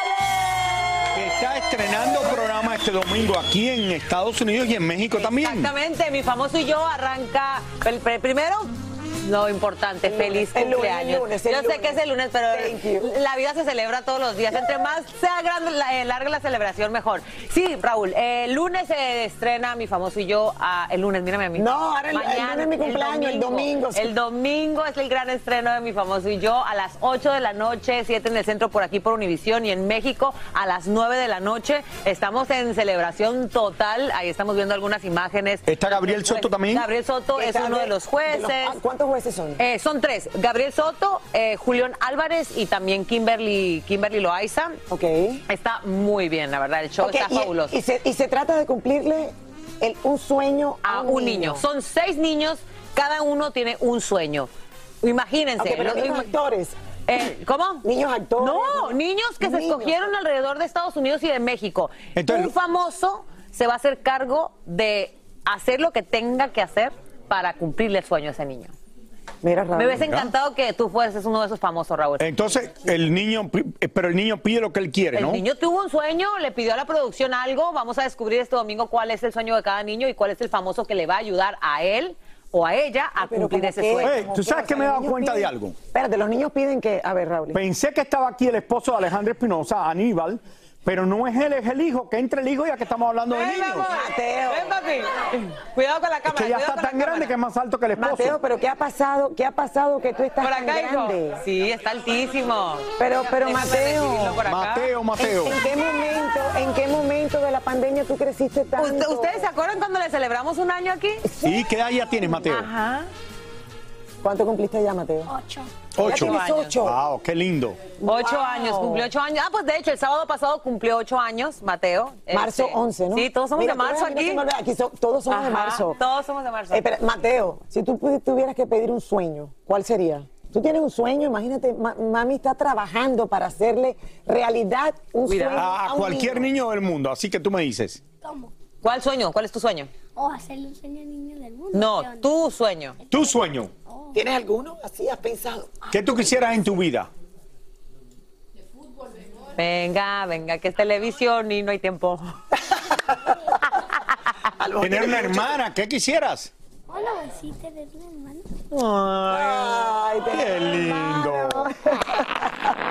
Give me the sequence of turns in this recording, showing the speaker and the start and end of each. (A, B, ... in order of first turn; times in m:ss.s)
0:01.1-0:05.7 A
0:05.2-0:38.8 B
0:10.1-0:13.1 C
0:21.6-0:24.1 C
0:35.7-0:36.8 A
0:37.4-0:39.6 C
0:39.6-0:44.8 B
0:44.9-0:45.4 C
0:45.5-0:47.8 B
0:47.0-0:51.6 C
0:50.8-0:54.5 B
0:55.0-0:56.3 B
0:55.6-0:56.8 C
0:57.1-0:57.8 B
0:57.8-1:00.0 C
0:58.4-1:08.7 B
1:02.2-1:02.5 A
1:09.4-1:10.2 C
1:09.8-1:12.3 B
1:12.2-1:15.4 A
1:15.1-1:24.2 B
1:23.2-1:27.6 C
1:24.0-1:25.8 A
1:27.5-1:33.9 A
1:33.3-1:37.3 B
1:33.9-1:34.7 C
1:36.3-1:38.4 A
1:38.0-1:41.4 C
1:40.4-1:44.9 B
1:43.0-1:44.4 C
1:44.5-1:45.6 A
1:45.2-1:49.5 C
1:48.8-1:51.2 B
1:51.2-1:51.5 C
1:51.4-1:52.7 A
1:52.4-1:53.1 B
1:54.2-1:55.3 C
1:55.3-1:55.7 D
1:56.0-1:57.8 A
1:56.0-1:57.0 C
1:56.0-1:56.8 B
1:58.0-2:04.4 B
1:58.0-1:59.1 C
2:02.3-2:06.0 C
2:05.3-2:06.9 B
2:06.7-2:16.5 C
2:15.2-2:15.7 B
2:15.6-2:18.0 A
2:18.2-2:18.5 D
2:18.8-2:19.9 B
2:20.1-2:22.4 D
2:21.7-2:23.0 B
2:23.1-2:23.7 A
2:23.9-2:24.2 D
2:24.1-2:25.9 C
2:25.9-2:27.1 A
2:29.6-2:32.4 B
2:34.6-2:35.6 C
2:34.8-2:36.5 A
2:36.9-2:38.5 D
2:38.8-2:42.7 C
2:40.3-2:41.7 A